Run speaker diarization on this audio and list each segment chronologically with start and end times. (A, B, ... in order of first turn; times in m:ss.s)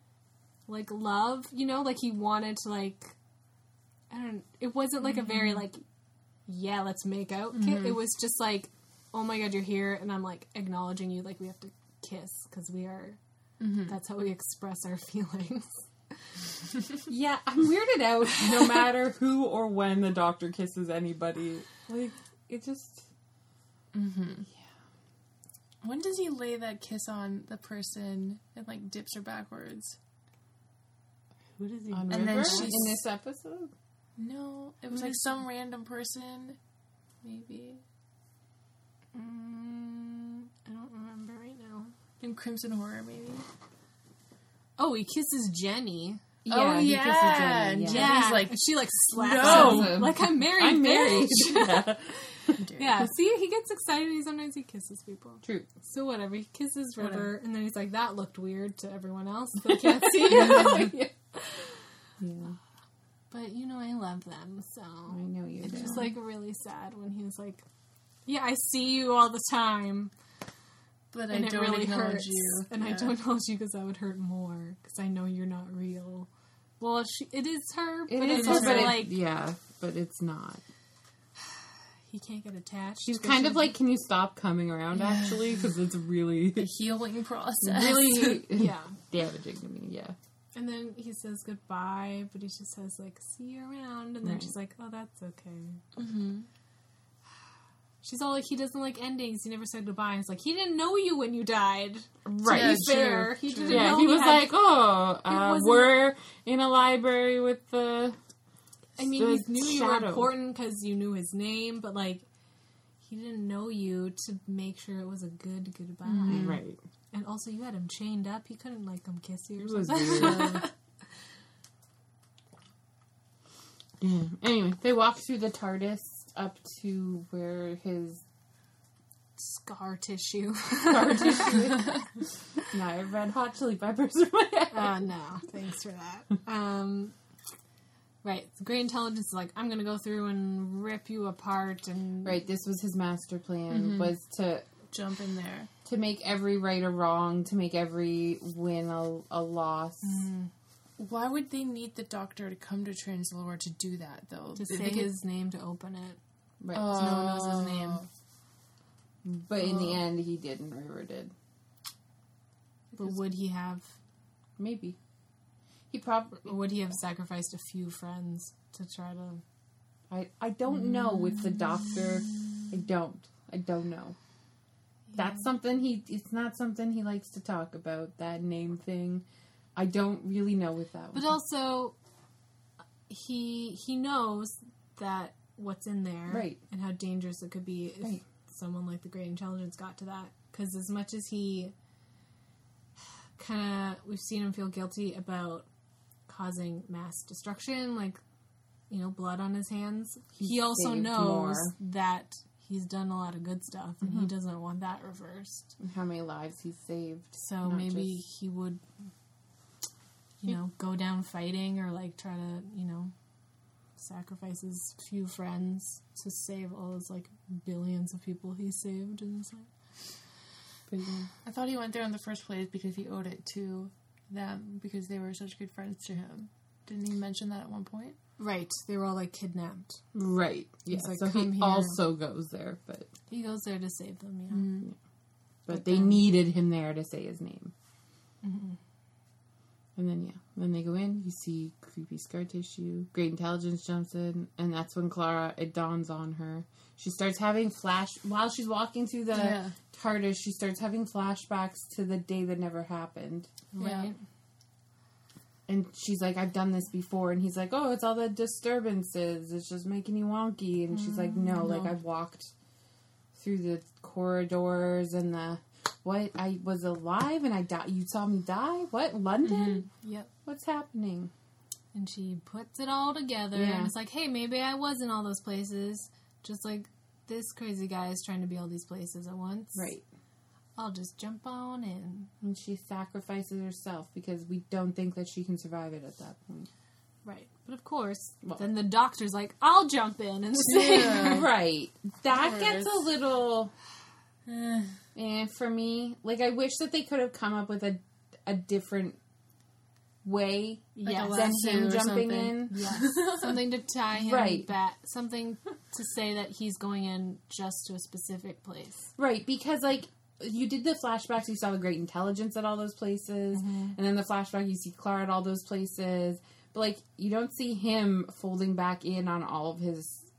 0:00.7-0:03.2 A
0:04.1-0:05.8 A
0:06.5-0:13.2 A
0:07.6-0:08.0 B
0:13.6-0:13.9 B
0:13.8-0:15.8 A
0:17.1-0:23.1 C
0:23.9-0:24.4 B
0:25.8-0:30.0 B
0:31.6-0:33.0 A
0:31.9-0:33.7 C
0:32.1-0:33.0 B
0:34.2-0:36.6 B
0:37.2-0:37.8 B
0:39.1-0:41.9 A
0:42.2-0:43.4 B
0:44.8-0:46.2 A
0:46.4-0:48.2 C
0:46.5-0:50.0 B
0:47.8-0:51.9 A
0:49.4-0:52.6 C
0:52.6-0:53.1 B
0:52.8-1:01.7 A
0:55.4-0:55.7 C
0:59.6-1:01.1 C
1:02.2-1:02.6 C
1:03.3-1:07.6 A
1:05.1-1:06.0 C
1:08.2-1:10.1 A
1:11.1-1:13.1 B
1:11.3-1:16.3 A
1:16.8-1:19.1 A
1:18.1-1:20.6 C
1:18.3-1:19.0 B
1:22.1-1:23.7 A
1:23.0-1:26.7 C
1:24.9-1:25.6 B
1:26.6-1:28.4 B
1:27.6-1:30.2 C
1:28.5-1:29.0 A
1:30.5-1:35.8 A
1:34.2-1:34.5 C
1:36.0-1:36.5 B
1:38.0-1:46.0 A
1:42.2-1:42.9 C
1:42.4-1:44.1 B
1:43.7-1:48.2 C
1:49.0-1:52.2 A
1:49.0-1:50.3 C
1:53.0-1:56.5 A
1:56.0-1:56.6 B
1:56.3-1:56.8 C
1:57.1-2:00.7 A
1:59.6-2:00.6 C
2:04.0-2:08.2 C
2:09.4-2:11.9 A
2:10.8-2:12.0 C
2:12.6-2:15.0 C
2:14.7-2:17.1 A
2:18.2-2:22.4 A
2:22.2-2:24.6 C
2:23.7-2:24.1 B
2:24.9-2:25.7 B
2:25.8-2:30.2 C
2:30.0-2:30.5 A
2:31.0-2:35.1 B
2:34.6-2:36.2 A
2:36.6-2:37.1 C
2:36.7-2:38.1 B
2:36.8-2:38.0 A
2:39.2-2:41.3 C
2:42.9-2:43.9 A
2:44.6-2:45.0 C
2:45.9-2:46.6 C
2:46.4-2:49.4 A
2:50.1-2:54.2 C
2:55.1-2:55.4 A
2:55.2-2:59.2 C
2:59.8-3:01.3 C
3:01.1-3:01.9 A
3:03.1-3:11.7 A
3:06.3-3:06.6 C
3:13.4-3:15.6 A
3:16.3-3:18.2 A
3:18.9-3:25.7 A
3:20.4-3:21.7 C
3:25.8-3:28.1 C
3:27.4-3:28.8 A
3:30.4-3:33.1 A
3:34.0-3:39.7 A
3:40.9-3:41.3 C
3:41.4-3:48.2 B
3:48.4-3:50.0 A
3:50.1-3:53.1 C
3:50.9-3:52.0 A
3:53.3-3:54.7 A
3:54.5-3:54.9 B
3:55.7-3:57.7 C
3:55.7-3:56.2 A
3:58.4-3:58.8 A
4:00.0-4:13.5 C
4:09.3-4:09.7 B
4:13.7-4:14.2 A
4:13.8-4:14.1 B
4:15.7-4:22.5 C
4:21.0-4:21.9 B
4:23.3-4:29.8 C
4:29.9-4:30.3 A
4:30.4-4:31.3 C
4:31.9-4:39.9 A
4:33.5-4:33.9 C
4:39.7-4:40.0 C
4:40.8-4:42.3 A
4:42.4-4:46.7 C
4:47.2-4:51.4 A
4:51.0-4:53.7 C
4:52.3-4:53.0 B
4:54.4-4:54.9 B
4:55.1-4:59.2 C
5:00.2-5:02.7 C
5:01.0-5:01.6 A
5:01.0-5:03.6 B
5:02.7-5:09.1 A
5:04.1-5:04.7 C
5:09.2-5:20.3 C
5:13.5-5:14.0 A